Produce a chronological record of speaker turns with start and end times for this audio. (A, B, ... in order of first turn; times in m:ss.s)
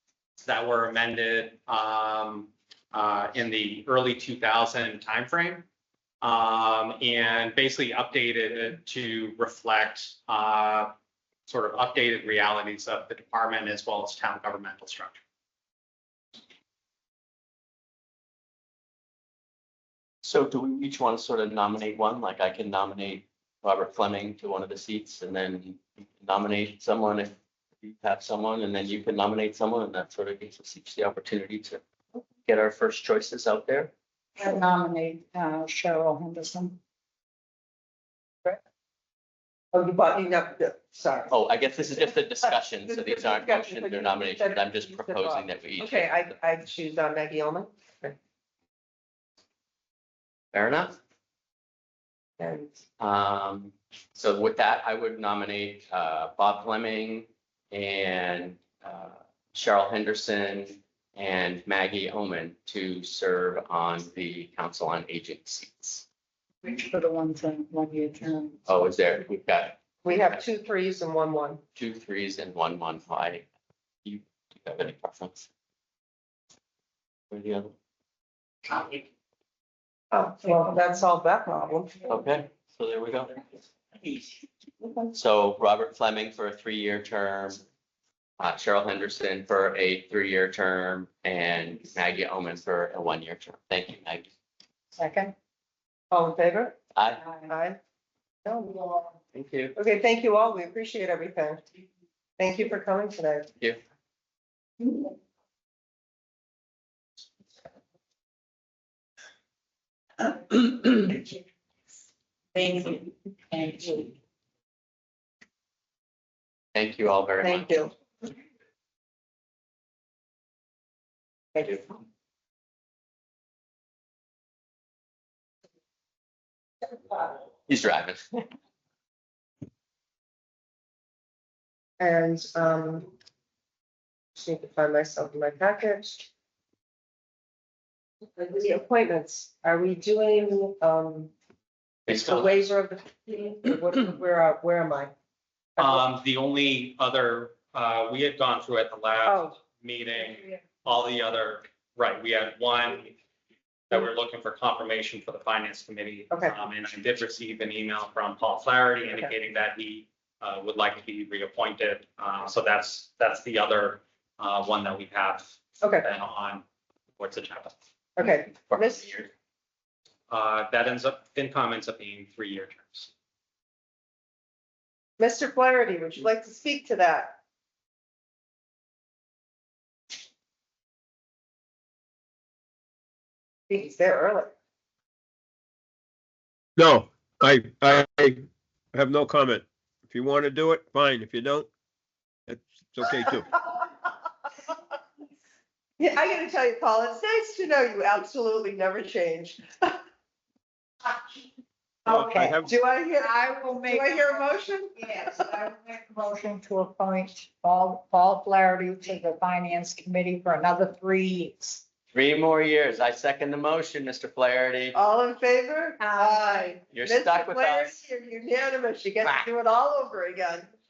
0:00.4-0:05.7 A
0:06.2-0:10.9 A
0:11.5-0:15.2 A
0:20.2-0:31.8 B
0:32.4-0:33.9 B
0:34.4-0:36.8 C
0:39.7-0:41.3 D
0:41.3-0:46.1 B
0:42.4-0:48.2 D
0:50.5-0:51.0 B
0:52.4-0:52.8 D
0:53.0-1:06.0 B
1:06.6-1:08.6 C
1:08.7-1:10.4 B
1:10.0-1:11.6 D
1:11.8-1:13.4 B
1:14.0-1:15.4 B
1:17.3-1:17.7 B
1:20.1-1:22.0 D
1:22.1-1:23.4 B
1:25.1-1:27.6 B
1:28.4-1:34.3 B
1:35.0-1:35.3 C
1:36.1-1:36.8 D
1:36.9-1:37.2 B
1:37.2-1:37.5 C
1:37.5-1:37.8 D
1:38.4-1:38.8 D
1:39.3-1:39.7 B
1:39.7-1:41.6 D
1:42.4-1:43.5 D
1:50.5-1:51.3 C
1:52.5-1:54.1 C
1:56.7-1:57.7 B
1:57.4-1:57.9 D
2:07.7-2:08.4 B
2:12.0-2:13.1 D
2:14.3-2:16.3 D
2:18.4-2:21.3 D
2:22.0-2:25.1 D
2:22.1-2:22.5 B
2:25.8-2:26.0 D
2:25.8-2:33.2 A
2:29.2-2:29.6 D
2:33.9-2:46.6 A
2:45.8-2:46.0 D
2:47.2-2:47.7 A
2:48.2-2:49.1 D
2:48.7-2:49.3 B
2:50.3-2:53.1 A
2:55.2-2:57.4 D
3:03.7-3:04.5 D
3:06.8-3:11.7 E
3:12.5-3:13.5 E
3:16.0-3:20.0 D
3:22.0-3:22.6 C
3:22.0-3:22.7 E
3:22.6-3:25.5 D
3:23.1-3:31.8 C
3:32.1-3:35.0 B
3:34.9-3:40.7 D
3:36.0-3:36.7 C
3:36.9-3:38.0 B